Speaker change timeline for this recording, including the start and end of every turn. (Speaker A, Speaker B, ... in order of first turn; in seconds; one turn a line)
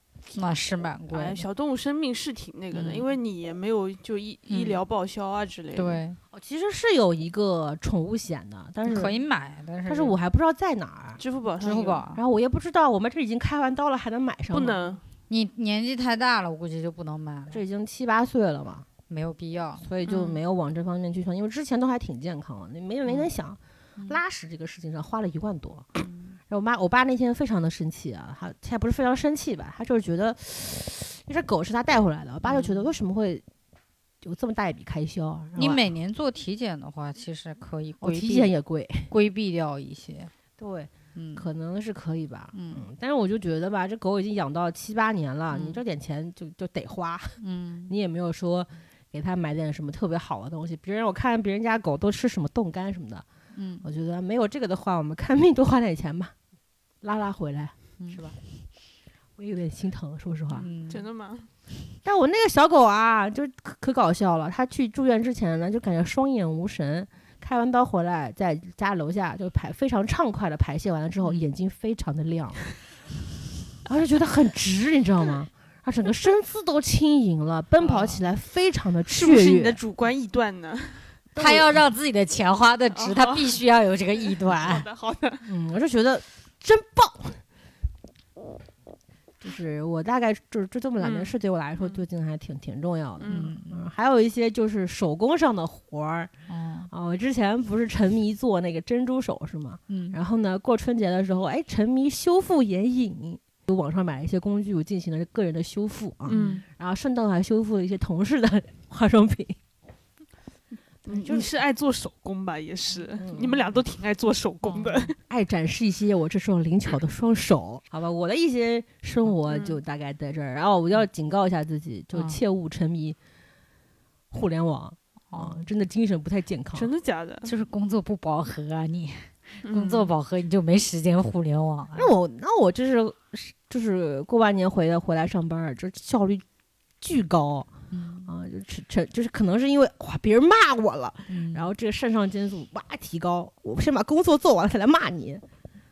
Speaker A: 0.3-1.5
Speaker B: 1.1-6.0
Speaker A: 2.7-3.1
Speaker A: 4.5-4.8
Speaker A: 5.8-6.2
Speaker C: 6.3-9.2
Speaker A: 8.8-10.2
Speaker C: 9.9-11.2
Speaker B: 11.2-12.0
Speaker A: 11.6-12.2
Speaker C: 12.2-15.0
Speaker B: 14.5-15.0
Speaker A: 15.3-17.6
Speaker C: 17.5-18.9
Speaker A: 19.1-19.9
Speaker C: 19.8-25.9
Speaker B: 20.1-20.4
Speaker C: 26.5-33.4
Speaker A: 32.5-32.9
Speaker C: 34.2-35.8
Speaker A: 35.6-38.5
Speaker C: 38.0-39.1
Speaker A: 39.1-40.3
Speaker C: 40.6-53.2
Speaker A: 41.1-41.5
Speaker A: 42.5-42.9
Speaker A: 45.5-45.8
Speaker A: 47.4-47.9
Speaker A: 53.5-53.9
Speaker C: 53.8-56.3
Speaker C: 57.0-58.2
Speaker A: 58.0-58.4
Speaker C: 59.4-60.7
Speaker B: 60.5-61.5
Speaker A: 60.6-61.0
Speaker C: 62.0-72.7
Speaker C: 73.8-79.8
Speaker B: 79.1-81.2
Speaker C: 81.3-81.7
Speaker A: 81.4-84.9
Speaker B: 82.9-83.6
Speaker B: 84.2-85.5
Speaker C: 85.5-87.4
Speaker C: 89.4-96.3
Speaker B: 91.0-92.0
Speaker B: 93.2-93.5
Speaker A: 93.2-93.9
Speaker A: 96.5-96.9
Speaker C: 96.9-109.6
Speaker A: 99.9-100.2
Speaker A: 106.3-106.6
Speaker B: 106.3-106.6
Speaker B: 111.1-115.2
Speaker C: 111.1-111.5
Speaker C: 113.2-113.6
Speaker A: 114.7-115.1
Speaker C: 115.3-123.2
Speaker B: 119.5-119.8
Speaker A: 122.1-122.4
Speaker C: 124.3-126.9
Speaker A: 125.3-125.7
Speaker B: 126.7-127.5
Speaker A: 127.5-132.1
Speaker B: 129.6-130.1
Speaker C: 131.9-136.4
Speaker C: 137.0-137.7
Speaker A: 137.9-138.3
Speaker C: 138.3-145.4
Speaker A: 141.3-141.7